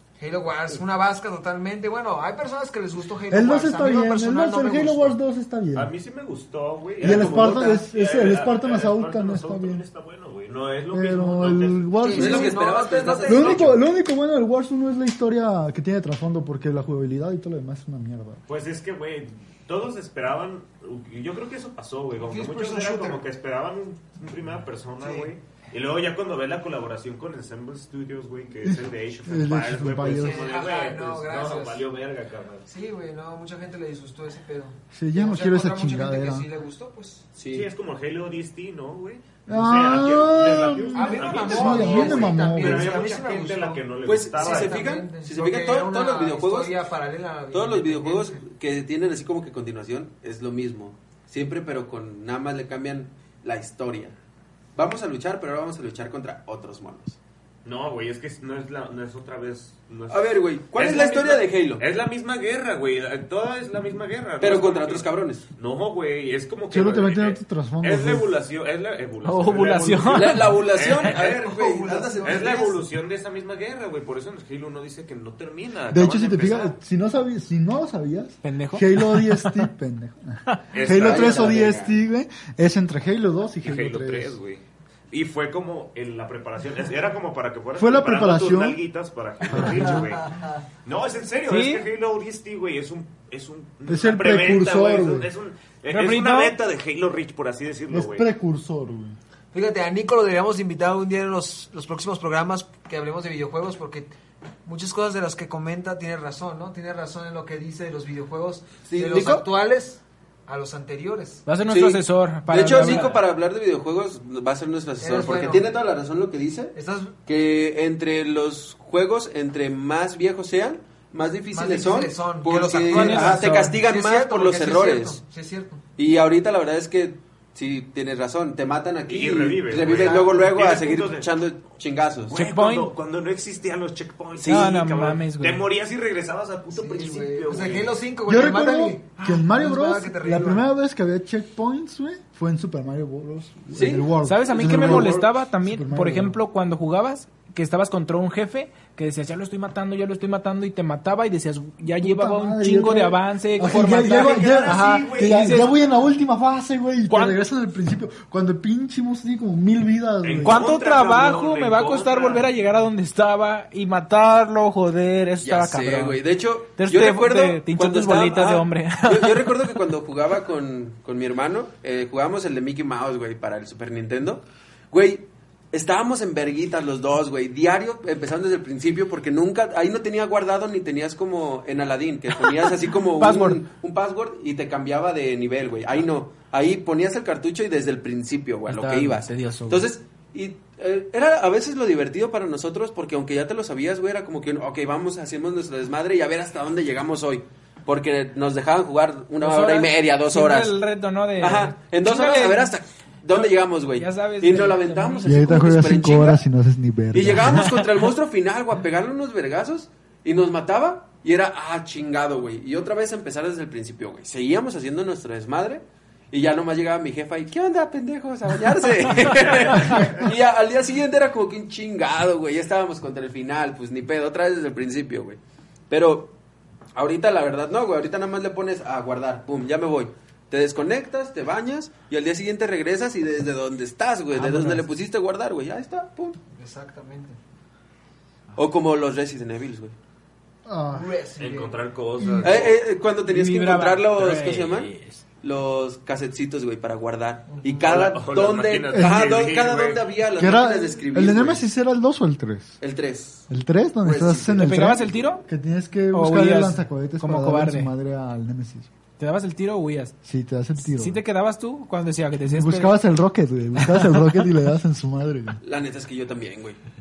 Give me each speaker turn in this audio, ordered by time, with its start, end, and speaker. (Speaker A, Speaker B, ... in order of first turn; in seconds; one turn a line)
Speaker A: 0.2-5.2
Speaker B: 3.3-5.9
Speaker C: 5.7-11.9
Speaker A: 7.0-7.8
Speaker B: 7.0-9.8
Speaker B: 10.9-12.6
Speaker A: 12.0-13.7
Speaker D: 12.1-13.8
Speaker B: 13.2-18.4
Speaker C: 18.5-32.7
Speaker A: 22.2-23.2
Speaker A: 25.0-25.3
Speaker B: 28.6-30.5
Speaker A: 30.0-31.9
Speaker A: 32.7-37.3
Speaker B: 34.9-36.5
Speaker D: 37.3-37.7
Speaker C: 37.5-44.8
Speaker B: 39.5-43.0
Speaker A: 40.9-48.4
Speaker D: 44.0-46.8
Speaker D: 47.5-54.1
Speaker D: 54.8-57.2
Speaker C: 57.6-71.6
Speaker D: 60.1-61.8
Speaker D: 64.4-65.4
Speaker B: 66.7-68.3
Speaker E: 69.2-70.6
Speaker D: 70.1-72.7
Speaker A: 71.1-72.8
Speaker C: 72.2-76.7
Speaker B: 75.9-84.4
Speaker E: 78.4-79.7
Speaker C: 80.7-81.8
Speaker D: 80.8-82.0
Speaker C: 83.6-98.3
Speaker B: 87.8-88.8
Speaker B: 89.5-90.0
Speaker A: 89.9-90.6
Speaker E: 91.5-91.8
Speaker B: 93.9-95.3
Speaker E: 95.9-96.5
Speaker B: 97.9-99.2
Speaker A: 99.5-104.1
Speaker A: 104.6-111.4
Speaker D: 108.8-109.5
Speaker E: 111.5-113.2
Speaker D: 111.7-125.2
Speaker A: 115.0-115.7
Speaker A: 116.7-117.1
Speaker A: 121.5-125.8
Speaker E: 122.9-123.8
Speaker D: 126.0-132.4
Speaker C: 129.1-131.3
Speaker A: 129.8-130.3
Speaker C: 132.3-138.0
Speaker E: 132.4-132.9
Speaker D: 134.4-134.7
Speaker E: 134.4-135.6
Speaker A: 136.7-140.7
Speaker B: 138.3-146.4
Speaker D: 143.7-144.1
Speaker E: 144.2-155.7
Speaker D: 144.6-145.1
Speaker B: 152.0-160.6
Speaker C: 154.0-155.8
Speaker A: 154.7-155.4
Speaker E: 157.1-157.4
Speaker C: 160.2-162.5
Speaker E: 160.3-166.2
Speaker D: 165.4-200.8
Speaker E: 166.8-169.7
Speaker E: 183.2-183.6
Speaker E: 188.7-189.9
Speaker E: 199.4-202.7
Speaker D: 201.4-206.4
Speaker E: 203.3-205.3
Speaker B: 205.2-207.9
Speaker D: 207.1-225.4
Speaker D: 225.9-226.3
Speaker D: 226.9-236.4
Speaker E: 234.3-234.8
Speaker A: 236.5-237.4
Speaker D: 238.6-239.9
Speaker B: 240.6-241.1
Speaker A: 240.9-241.8
Speaker C: 241.4-242.8
Speaker B: 242.2-242.5
Speaker D: 242.4-244.9
Speaker E: 243.3-245.2
Speaker D: 245.4-251.6
Speaker A: 247.5-248.0
Speaker C: 247.8-250.0
Speaker B: 248.9-249.3
Speaker B: 250.4-252.8
Speaker D: 252.8-253.4
Speaker B: 253.5-258.9
Speaker D: 254.0-255.0
Speaker E: 254.6-255.4
Speaker E: 256.1-257.9
Speaker E: 259.2-260.1
Speaker B: 260.2-261.2
Speaker E: 260.8-262.9
Speaker B: 262.5-265.6
Speaker D: 265.6-266.8